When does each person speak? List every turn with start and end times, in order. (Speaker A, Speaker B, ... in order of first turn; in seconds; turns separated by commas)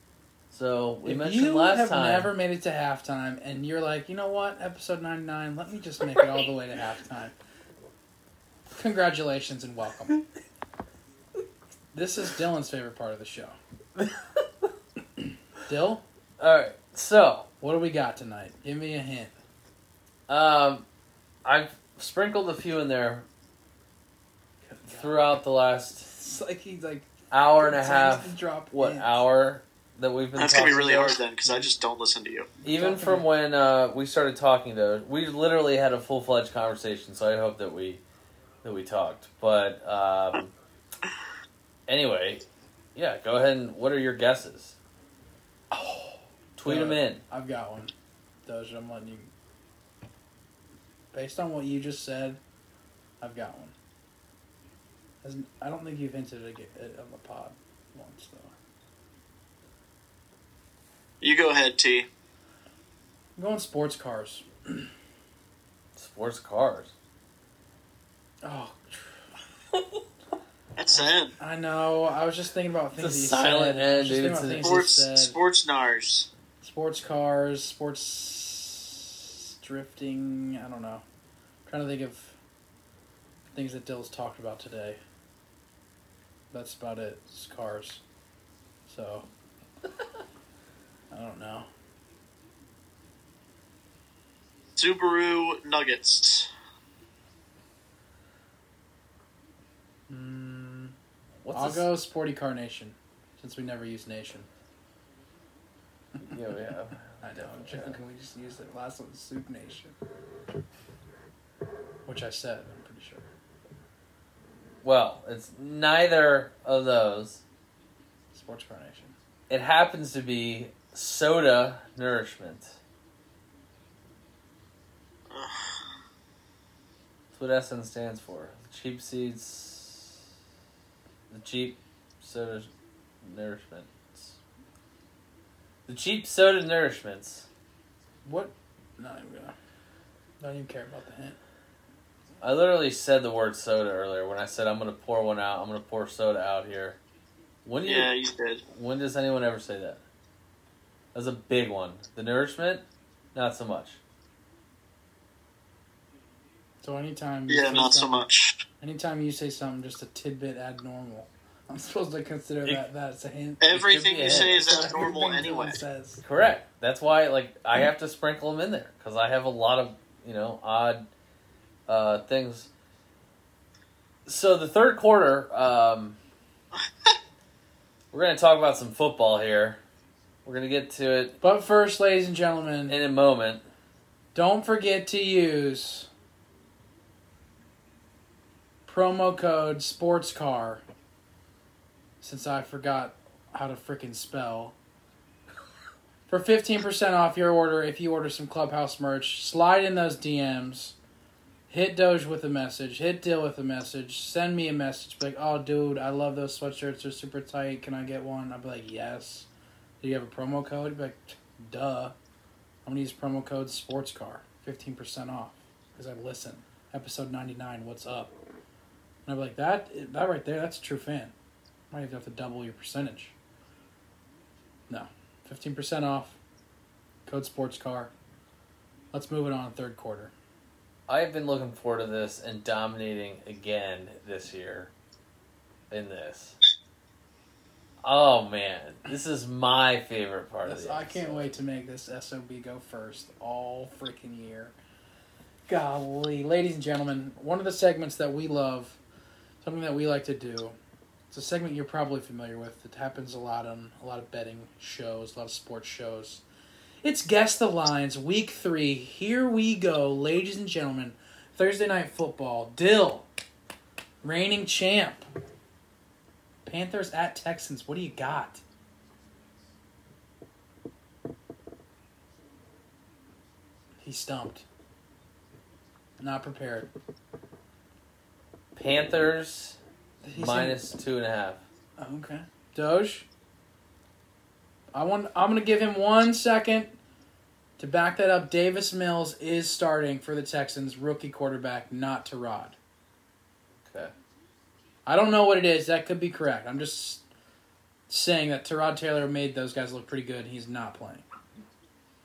Speaker A: 0.5-2.3, Speaker B: 1.0-7.3, Speaker B: 8.7-10.2, Speaker B: 11.9-13.6, Speaker A: 14.0-14.7, Speaker B: 15.7-16.0, Speaker A: 16.4-17.5, Speaker B: 17.6-19.3, Speaker A: 20.3-20.9, Speaker A: 21.4-23.3, Speaker B: 24.7-25.2, Speaker A: 24.9-26.1, Speaker B: 26.0-29.2, Speaker A: 27.3-31.2, Speaker C: 30.4-32.5, Speaker B: 32.6-33.3, Speaker A: 32.6-38.0, Speaker A: 38.6-40.5, Speaker A: 41.9-44.8, Speaker B: 45.7-49.3, Speaker A: 46.6-47.2, Speaker B: 51.1-52.4, Speaker B: 53.2-53.7, Speaker B: 55.2-58.5, Speaker C: 61.2-62.1, Speaker B: 63.4-64.9, Speaker A: 66.0-66.9, Speaker B: 68.4-69.3, Speaker A: 69.7-70.0, Speaker C: 70.8-71.3, Speaker B: 70.9-75.4, Speaker A: 73.0-74.8, Speaker C: 74.6-76.3, Speaker B: 76.6-81.0, Speaker B: 81.7-82.4, Speaker B: 83.5-85.0, Speaker B: 86.5-88.0, Speaker B: 88.9-89.3, Speaker B: 91.1-91.7, Speaker C: 94.8-96.5, Speaker B: 100.1-101.0, Speaker A: 101.4-101.9, Speaker B: 101.5-104.5, Speaker A: 106.3-108.0, Speaker B: 107.2-110.0, Speaker B: 112.1-113.3, Speaker A: 114.8-117.4, Speaker B: 118.3-119.2, Speaker A: 119.5-122.8, Speaker C: 125.3-125.8, Speaker A: 127.3-130.2, Speaker A: 131.3-134.4, Speaker A: 135.9-137.5, Speaker B: 138.2-139.6, Speaker B: 140.4-141.4, Speaker A: 142.4-147.0, Speaker A: 147.7-148.1, Speaker C: 147.9-148.6, Speaker A: 148.7-150.0, Speaker A: 151.1-154.0, Speaker B: 156.8-158.3, Speaker C: 157.5-158.6, Speaker B: 158.8-163.6, Speaker C: 163.6-165.8, Speaker A: 163.7-164.7, Speaker B: 164.2-166.2, Speaker A: 166.2-171.1, Speaker A: 171.9-172.7, Speaker A: 174.3-176.2, Speaker A: 178.1-179.8, Speaker A: 180.4-181.4, Speaker B: 181.4-183.0, Speaker A: 182.9-183.6, Speaker B: 184.3-186.1, Speaker B: 188.9-190.8, Speaker B: 192.2-194.8, Speaker B: 196.3-201.0, Speaker B: 201.7-209.5, Speaker B: 210.0-212.2, Speaker B: 212.8-218.3, Speaker B: 219.3-221.3, Speaker B: 221.9-223.3, Speaker B: 224.9-226.4, Speaker B: 227.3-228.1, Speaker B: 229.1-230.3, Speaker A: 231.1-234.9, Speaker A: 235.9-236.6, Speaker A: 238.0-241.6, Speaker B: 240.7-244.8, Speaker B: 245.7-249.0, Speaker B: 249.6-250.8, Speaker B: 251.3-256.4, Speaker B: 257.0-263.3, Speaker B: 264.2-265.3, Speaker B: 266.6-268.6, Speaker B: 274.0-274.6, Speaker B: 276.2-276.9, Speaker A: 278.8-279.8, Speaker B: 280.2-280.9, Speaker A: 280.3-281.6, Speaker B: 282.0-283.3, Speaker B: 284.9-287.0, Speaker B: 287.8-292.8, Speaker A: 293.8-294.1, Speaker B: 295.1-297.2, Speaker B: 298.1-301.3